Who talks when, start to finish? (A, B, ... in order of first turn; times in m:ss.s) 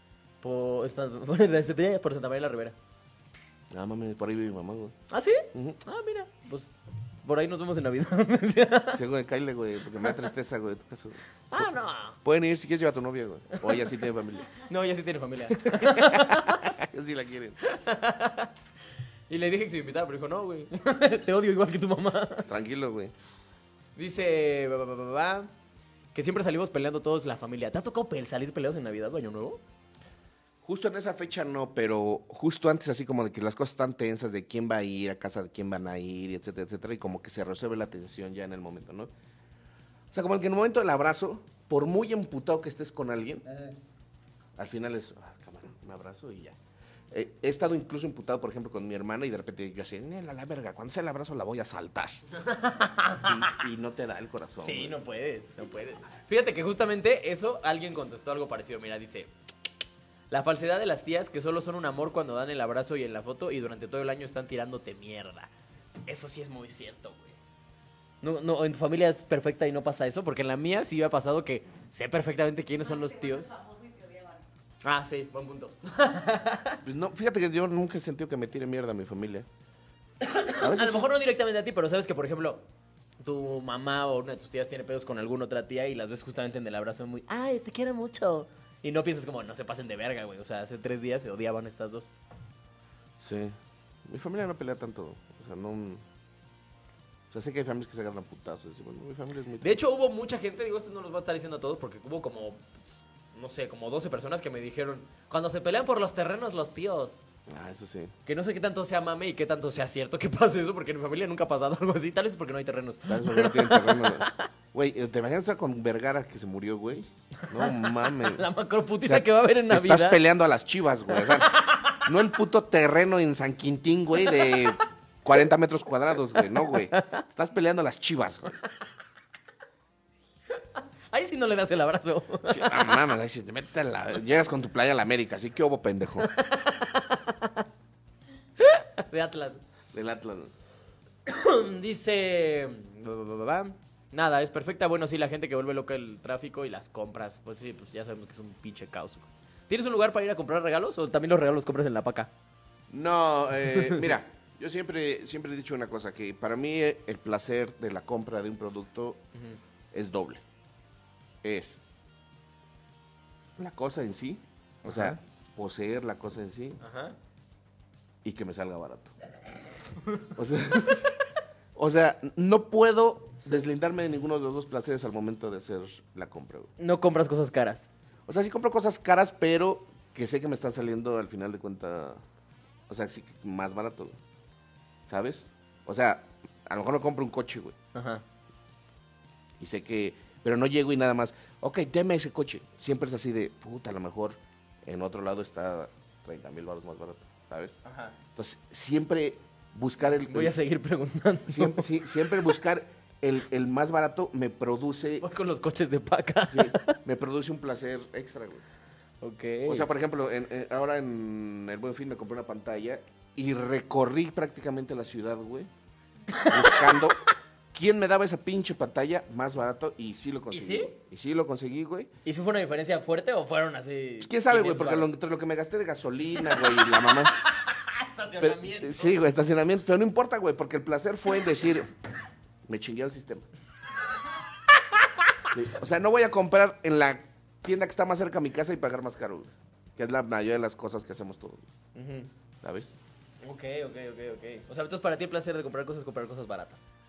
0:00.4-0:02.8 A
0:03.7-0:05.0 B
0:05.1-0:06.7 A
0:05.5-0:05.8 B
0:07.2-0:09.0 A
0:08.9-0:11.7 B
0:11.5-0:12.2 A
0:12.2-0:14.5 B
0:14.6-0:16.7 A
0:15.5-0:17.6 B
0:17.6-0:18.5 A
0:19.3-0:22.5 A
0:22.5-0:23.1 B
0:24.0-0:25.5 A
0:26.1-0:29.6 A
0:30.6-0:39.1 B
0:40.1-0:43.4 B
0:44.6-0:46.6 B
0:47.1-0:52.2 B
0:52.3-0:53.6 A
0:53.2-0:55.0 B
0:54.6-0:59.3 A
1:00.3-1:05.5 A
1:06.1-1:07.4 A
1:08.2-1:13.8 A
1:14.8-1:16.8 A
1:16.8-1:19.5 B
1:20.2-1:22.6 A
1:20.6-1:21.1 B
1:23.2-1:32.1 A
1:33.2-1:36.0 B
1:37.3-1:39.8 B
1:39.6-1:47.2 A
1:47.5-1:48.1 B
1:48.3-1:54.4 A
1:53.1-1:58.5 B
1:57.4-2:00.2 A
1:59.0-2:08.6 B
2:01.2-2:02.1 A
2:04.3-2:04.6 A
2:06.4-2:07.2 A
2:10.5-2:13.0 A
2:12.4-2:16.3 B
2:16.2-2:17.7 A
2:18.6-2:19.6 A
2:19.9-2:20.5 B
2:21.3-2:32.3 A
2:32.9-2:39.2 B
2:33.7-2:34.1 A
2:39.9-2:40.4 B
2:41.4-2:41.8 B
2:43.6-2:46.8 B
2:44.9-2:45.2 A
2:46.8-2:47.2 A
2:48.2-2:49.1 B
2:50.2-2:51.2 B
2:51.8-2:56.7 B
2:56.8-2:57.9 A
2:58.3-3:02.2 B
3:02.9-3:04.2 B
3:05.1-3:07.8 B
3:07.9-3:08.2 A
3:09.6-3:17.8 B
3:17.8-3:18.2 A
3:18.4-3:20.6 B
3:20.1-3:22.1 A
3:21.5-3:25.3 B
3:25.2-3:27.0 A
3:26.5-3:28.6 B
3:29.2-3:29.9 A
3:29.7-3:35.7 B
3:36.3-3:36.9 A
3:36.4-3:37.2 B
3:37.7-3:42.1 B
3:40.5-3:41.0 A
3:42.2-3:45.2 A
3:44.2-3:47.4 B
3:46.5-3:49.2 A
3:48.4-3:51.9 B
3:52.7-3:53.5 B
3:55.5-4:01.7 B
4:02.0-4:02.3 A
4:02.6-4:03.0 B
4:03.4-4:06.9 A